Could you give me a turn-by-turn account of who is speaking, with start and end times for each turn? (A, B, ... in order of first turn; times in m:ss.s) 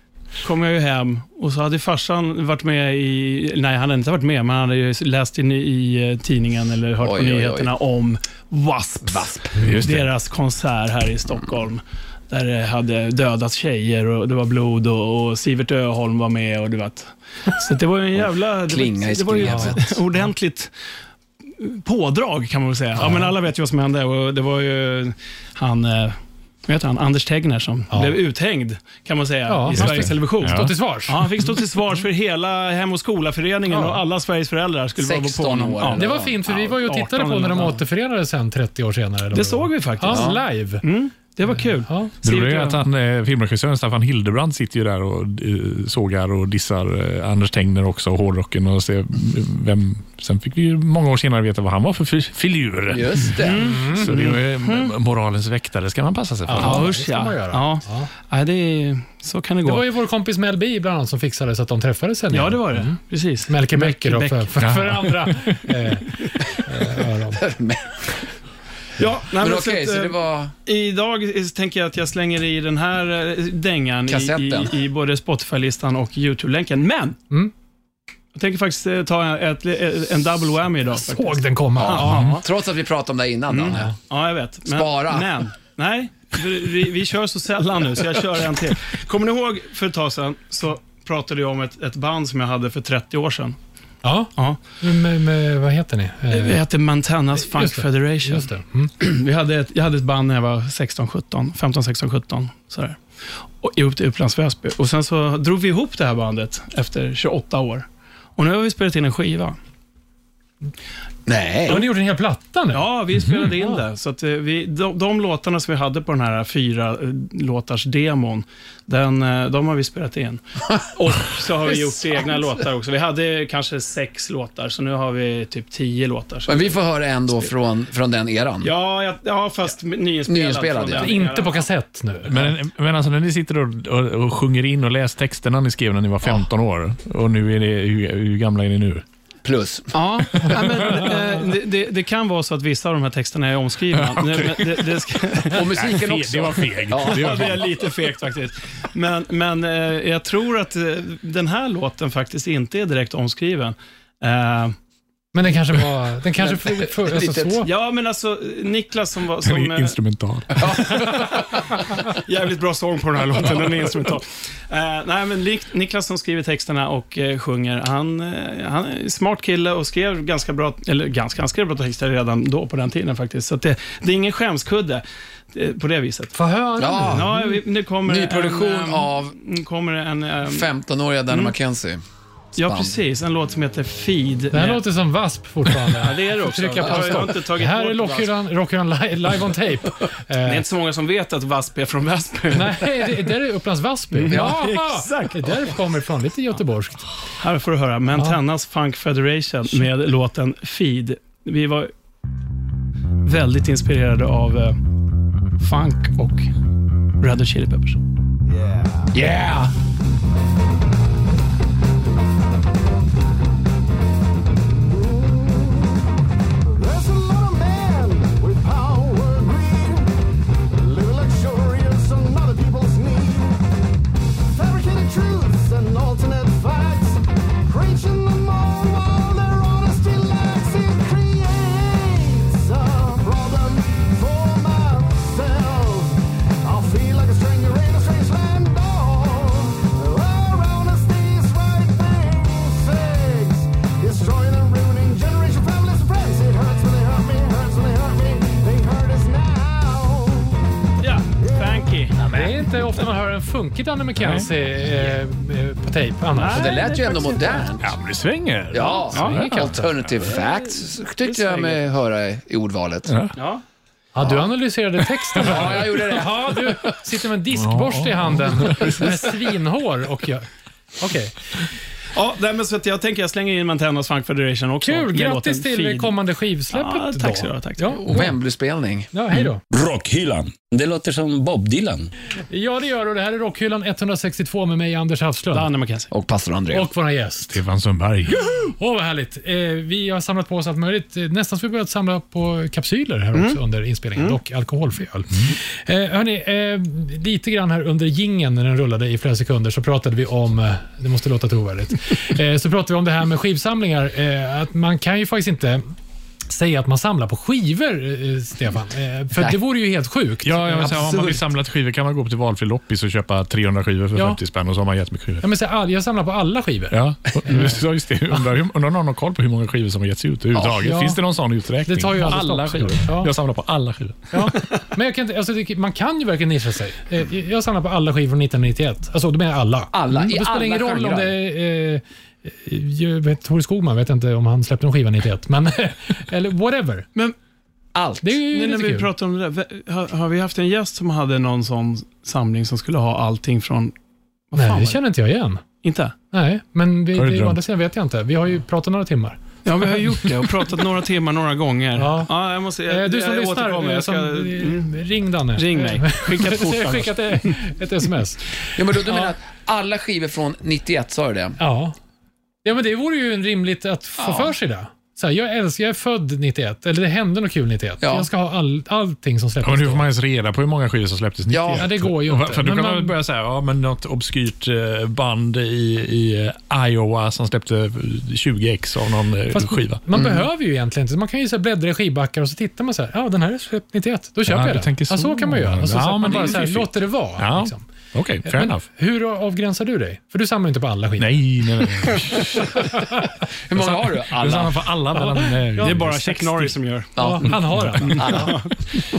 0:00.4-0:20.7 A
0:07.0-0:07.7 B
0:09.0-0:09.8 B
0:09.6-0:10.1 C
0:18.2-0:20.0 B
0:19.4-0:19.8 D
0:21.5-0:37.8 A
0:23.0-0:23.3 D
0:27.9-0:28.2 D
0:29.5-0:31.3 D
0:29.7-0:30.7 C
0:33.7-0:34.0 D
0:35.0-0:36.6 B
0:36.0-0:40.8 D
0:39.3-0:42.8 A
0:40.1-0:40.4 B
0:41.5-0:42.1 D
0:42.2-0:56.9 C
0:52.9-0:53.9 B
0:53.4-0:54.9 A
0:53.6-0:54.1 D
0:56.5-0:58.1 D
0:56.6-0:59.8 A
0:59.6-1:07.4 D
1:02.3-1:04.5 A
1:04.6-1:05.7 C
1:07.3-1:08.2 B
1:09.0-1:10.2 A
1:09.3-1:10.5 B
1:10.7-1:17.2 A
1:14.1-1:14.8 B
1:18.3-1:22.5 A
1:21.0-1:22.4 D
1:21.8-1:23.9 B
1:23.5-1:33.6 A
1:24.6-1:25.5 B
1:34.0-1:36.6 D
1:36.3-1:43.0 A
1:37.4-1:38.9 D
1:43.6-1:49.6 A
1:51.3-1:51.8 B
1:51.7-1:52.9 D
1:52.7-2:06.8 A
1:53.2-1:53.5 C
2:06.5-2:08.7 B
2:08.6-2:11.7 A
2:10.3-2:11.2 B
2:11.0-2:12.4 D
2:12.3-2:19.0 C
2:19.4-2:19.9 B
2:19.9-2:25.7 A
2:23.9-2:27.8 C
2:25.4-2:27.6 B
2:27.0-2:34.8 A
2:35.3-2:37.7 D
2:36.4-2:37.7 B
2:37.6-2:40.0 A
2:39.4-2:41.1 C
2:40.6-2:41.6 B
2:42.0-2:56.3 A
2:56.3-2:57.6 D
2:56.8-2:57.4 B
2:57.1-3:00.7 A
2:58.0-2:59.4 B
3:00.5-3:02.0 B
3:02.6-3:04.8 A
3:02.6-3:03.0 B
3:04.5-3:10.7 D
3:05.8-3:08.3 A
3:10.4-3:13.3 A
3:12.5-3:17.1 D
3:14.1-3:15.7 A
3:17.4-3:21.9 A
3:18.2-3:18.4 D
3:23.2-3:24.8 A
3:25.6-3:26.5 A
3:27.2-3:28.0 A
3:28.6-3:28.9 E
3:29.1-3:29.7 B
3:35.0-3:35.7 E
3:36.8-3:40.1 E
3:40.8-3:43.5 E
3:44.6-4:10.6 E
4:11.0-4:12.2 A
4:12.2-4:16.8 D
4:14.2-4:14.5 C
4:16.3-4:17.7 A
4:16.4-4:18.0 B
4:17.8-4:19.4 C
4:18.7-4:23.1 B
4:19.1-4:19.4 A
4:19.1-4:19.9 D
4:20.2-4:21.8 A
4:23.1-4:23.4 C
4:23.4-4:23.6 A
4:24.1-4:30.5 D
4:24.2-4:24.5 B
4:25.3-4:26.6 B
4:25.4-4:25.8 C
4:27.5-4:29.4 C
4:31.0-4:31.6 D
4:32.1-4:36.1 A
4:34.8-4:38.3 D
4:36.7-4:38.0 A
4:38.0-4:39.1 B
4:39.1-4:39.6 D
4:39.7-4:42.1 F
4:42.5-4:45.7 D
4:45.5-4:46.1 A
4:46.1-4:46.9 B
4:46.7-4:47.6 D
4:47.5-4:48.7 C
4:48.8-5:05.9 D
4:53.3-4:53.6 A
5:06.5-5:11.4 D
5:10.4-5:15.4 C
5:14.2-5:14.4 D
5:15.4-5:17.8 D
5:16.9-5:24.2 C
5:20.8-5:21.2 D
5:21.9-5:23.3 D
5:24.3-5:37.1 D
5:29.9-5:31.4 B
5:38.0-5:38.4 B
5:38.2-5:39.1 D
5:38.5-5:43.9 A
5:44.5-5:45.0 A
5:44.6-5:45.6 D
5:45.8-5:46.2 A
5:46.3-5:49.4 D
5:47.2-5:47.6 C
5:49.6-5:55.0 A
5:52.0-5:52.3 D
5:52.9-5:59.3 D
5:55.6-5:57.5 A
5:58.7-6:01.6 B
6:01.6-6:02.0 D
6:02.6-6:10.1 D
6:04.2-6:04.5 B
6:08.0-6:08.3 B
6:09.6-6:20.0 C
6:11.5-6:11.9 B
6:11.8-6:13.2 D
6:19.5-6:27.9 D
6:20.2-6:20.4 B
6:24.5-6:28.8 C
6:28.4-6:33.3 D
6:31.2-6:33.1 C
6:33.7-6:34.9 B
6:33.7-6:36.8 C
6:35.2-6:36.0 D
6:35.8-6:37.1 A
6:37.2-6:38.6 B
6:37.2-6:38.6 D
6:37.6-6:38.3 C
6:38.0-6:38.7 A